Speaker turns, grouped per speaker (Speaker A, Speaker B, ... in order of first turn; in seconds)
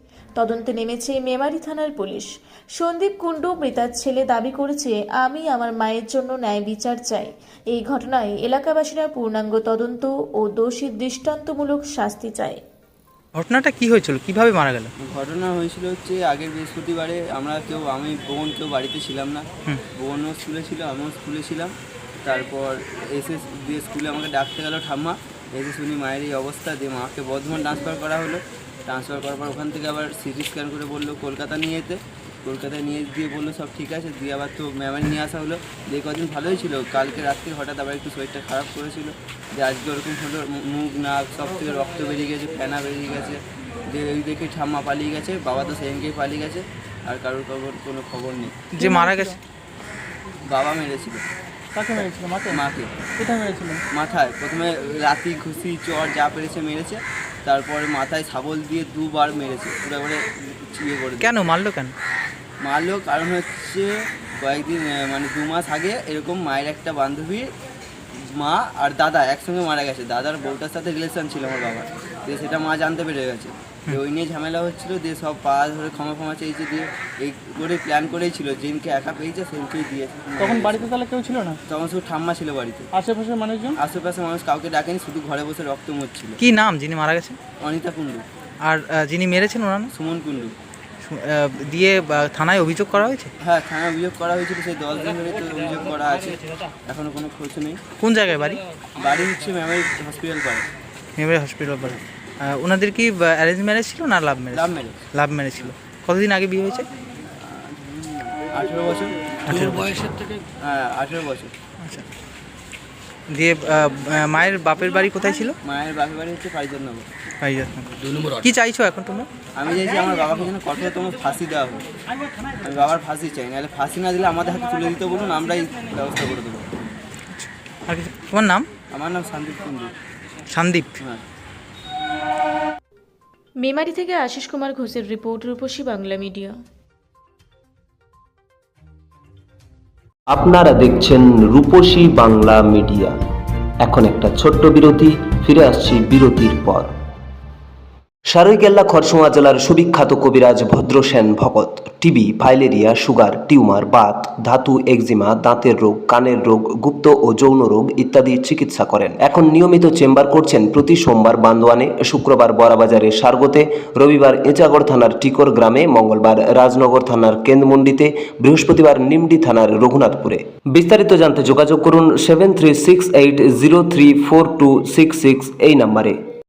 Speaker A: 0.3-12.6, 133.6-136.5
Speaker B: 13.3-14.9, 48.7-49.4, 61.2-61.9, 86.4-87.4, 88.6-89.9, 91.0-93.3, 98.0-98.6, 101.2-106.8, 109.5-110.0, 113.3-115.5, 117.4-119.3, 127.3-128.7, 130.5-130.9
Speaker C: 15.0-21.7, 22.2-48.5, 50.5-51.2, 52.0-52.9, 53.9-61.3, 62.6-67.5, 68.2-80.9, 81.7-82.9, 83.8-86.4, 87.6-88.2, 89.9-90.5, 93.4-97.8, 99.0-100.6, 104.5-105.0, 107.3-109.2, 110.6-111.5, 115.6-117.0, 119.6-121.9, 122.6-126.7, 128.9-129.9
Speaker D: 48.8-49.4, 51.7-52.6, 53.2-53.8, 80.4-81.5, 82.9-83.7
Speaker E: 140.3-143.1, 143.8-146.9, 148.3-176.2